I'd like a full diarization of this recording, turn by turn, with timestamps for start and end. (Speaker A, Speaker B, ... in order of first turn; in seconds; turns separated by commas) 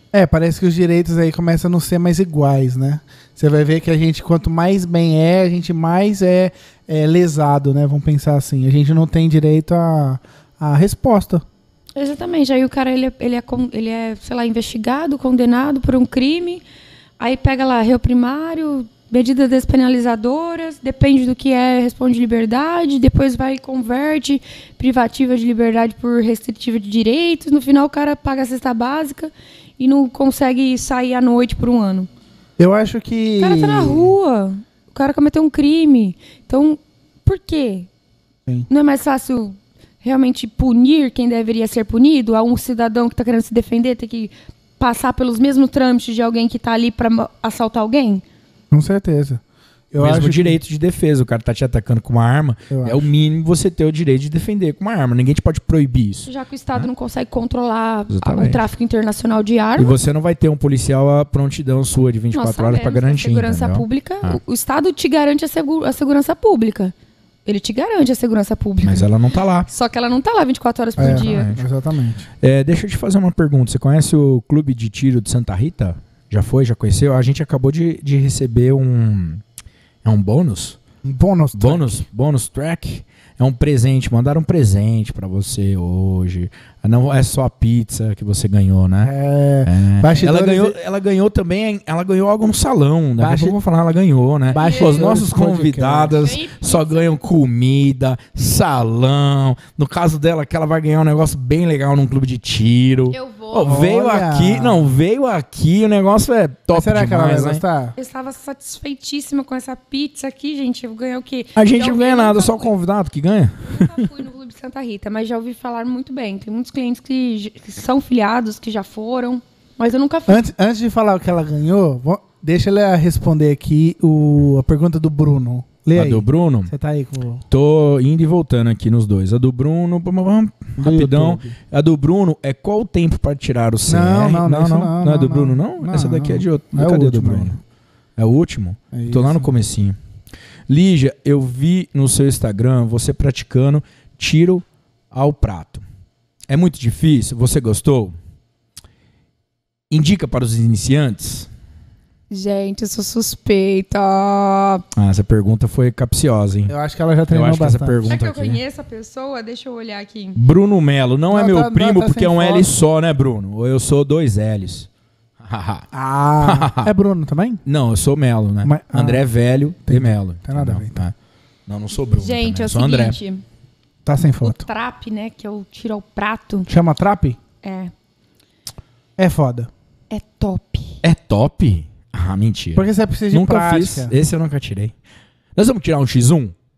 Speaker A: 0.1-11.4, Speaker B: 11.9-16.6, Speaker B: 17.2-32.1, Speaker A: 32.6-34.1, Speaker B: 33.4-37.9, Speaker B: 38.7-48.2, Speaker A: 48.7-49.4, Speaker A: 49.9-50.6, Speaker C: 50.0-56.9, Speaker A: 52.7-53.0, Speaker B: 56.3-60.0, Speaker C: 58.1-58.6, Speaker C: 59.8-64.4, Speaker B: 62.3-66.9, Speaker B: 67.5-69.1, Speaker C: 68.8-69.7, Speaker B: 69.7-71.5, Speaker C: 71.0-71.6, Speaker A: 71.0-72.3, Speaker C: 72.4-79.4, Speaker C: 80.0-80.8, Speaker A: 81.0-82.0, Speaker C: 81.5-89.1, Speaker A: 89.0-90.7, Speaker C: 89.6-107.6, Speaker A: 93.2-93.6, Speaker A: 94.5-96.2, Speaker B: 94.5-95.1, Speaker B: 96.2-97.2, Speaker B: 103.1-103.8, Speaker A: 103.6-104.9, Speaker A: 106.7-107.9, Speaker B: 108.0-112.7, Speaker C: 111.5-114.1, Speaker B: 113.7-120.5, Speaker A: 120.3-127.4, Speaker C: 125.9-126.7, Speaker C: 127.5-137.6, Speaker A: 130.8-131.6, Speaker A: 133.9-137.6, Speaker C: 138.2-139.9, Speaker A: 138.9-139.5, Speaker C: 140.7-145.8, Speaker C: 146.5-148.2, Speaker C: 149.9-151.5, Speaker B: 152.3-154.8, Speaker C: 154.9-156.7, Speaker A: 156.7-158.1, Speaker C: 157.3-158.6, Speaker B: 158.1-160.4, Speaker C: 160.3-164.9, Speaker A: 161.3-162.7, Speaker C: 165.4-165.9, Speaker A: 165.9-167.6, Speaker C: 166.4-166.9, Speaker C: 167.6-171.1, Speaker A: 168.6-169.2, Speaker A: 169.9-171.0, Speaker C: 171.7-173.2, Speaker B: 172.1-173.4, Speaker A: 174.1-174.6, Speaker B: 174.4-176.7, Speaker A: 176.7-177.4, Speaker B: 177.6-177.9, Speaker A: 179.2-179.7, Speaker B: 180.1-181.0, Speaker C: 181.0-184.9, Speaker A: 182.8-184.1, Speaker C: 185.6-186.5